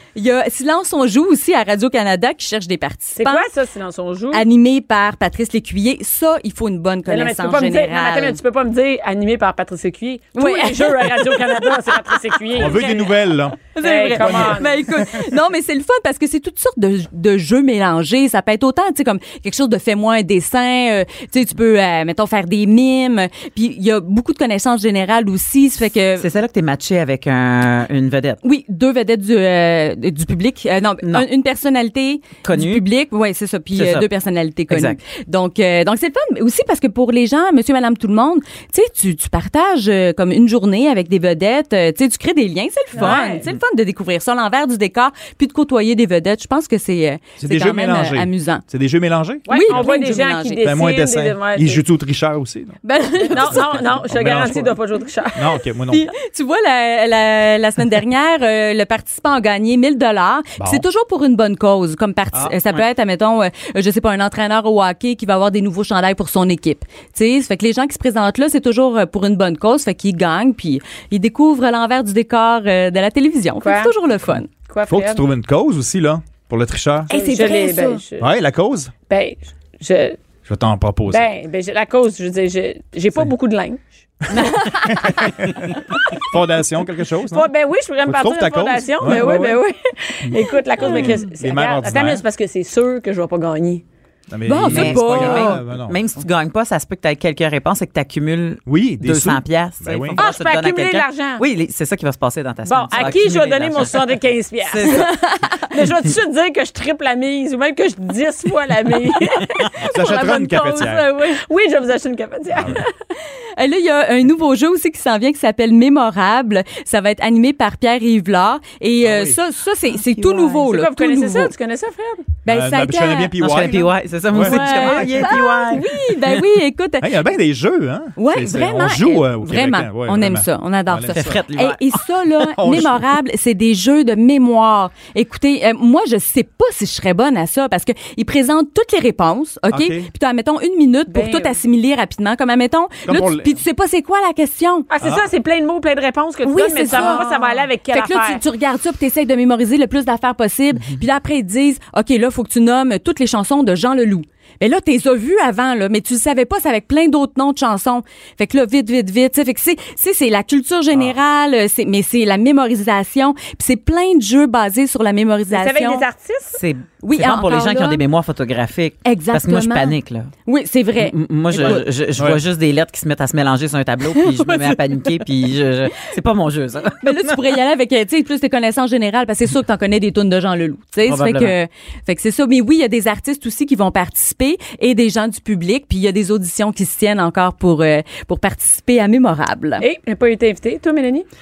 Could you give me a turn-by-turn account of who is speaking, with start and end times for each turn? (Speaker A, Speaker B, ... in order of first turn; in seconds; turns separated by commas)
Speaker A: 0.1-3.5, Speaker B: 3.2-4.5, Speaker A: 4.3-8.4, Speaker B: 7.1-13.2, Speaker A: 10.4-12.8, Speaker C: 12.5-15.3, Speaker A: 13.7-26.3, Speaker B: 13.8-14.7, Speaker D: 26.2-28.4, Speaker A: 28.4-48.6, Speaker D: 32.4-32.8, Speaker D: 33.8-34.1, Speaker D: 34.7-35.0, Speaker B: 43.0-43.5, Speaker C: 47.4-49.9, Speaker A: 49.5-50.6, Speaker B: 49.5-51.8, Speaker C: 50.6-54.8, Speaker A: 52.8-53.8, Speaker B: 53.3-55.4, Speaker C: 55.4-56.1, Speaker A: 55.9-74.5, Speaker C: 60.6-60.9, Speaker B: 73.6-74.0, Speaker B: 74.7-75.2, Speaker C: 74.9-77.1, Speaker A: 77.1-78.0, Speaker B: 77.1-78.3, Speaker C: 78.2-78.9, Speaker B: 79.1-80.2, Speaker C: 80.5-81.2, Speaker B: 81.1-83.9, Speaker C: 84.3-87.5, Speaker D: 84.3-84.7, Speaker A: 84.4-84.9, Speaker B: 87.3-93.8, Speaker C: 88.0-89.6, Speaker C: 90.3-92.2, Speaker A: 90.8-91.1, Speaker C: 94.3-96.0, Speaker A: 94.5-95.6, Speaker D: 94.7-105.1, Speaker C: 98.7-100.2, Speaker B: 100.2-101.4, Speaker B: 102.7-105.1, Speaker A: 104.8-105.7, Speaker B: 105.7-109.7, Speaker C: 109.8-111.1, Speaker A: 109.8-111.4, Speaker B: 111.3-112.9, Speaker C: 112.5-112.8, Speaker A: 113.6-121.5, Speaker C: 119.0-119.4, Speaker B: 120.6-122.3, Speaker A: 122.5-123.4, Speaker C: 122.5-125.4, Speaker D: 123.4-125.9, Speaker A: 124.4-127.1, Speaker C: 127.0-131.4, Speaker A: 128.2-144.9, Speaker D: 131.1-132.0, Speaker C: 132.6-133.1, Speaker C: 139.7-140.1, Speaker B: 141.1-141.6, Speaker C: 143.1-143.6, Speaker B: 144.9-148.4, Speaker C: 145.0-145.3, Speaker A: 146.4-166.1, Speaker B: 165.5-166.6, Speaker D: 166.6-170.3, Speaker A: 167.0-168.0, Speaker A: 169.1-169.9, Speaker A: 170.5-171.8, Speaker D: 171.0-177.4, Speaker C: 171.6-172.4, Speaker A: 174.2-175.1, Speaker A: 177.0-189.8, Speaker D: 181.1-181.6, Speaker B: 189.8-191.3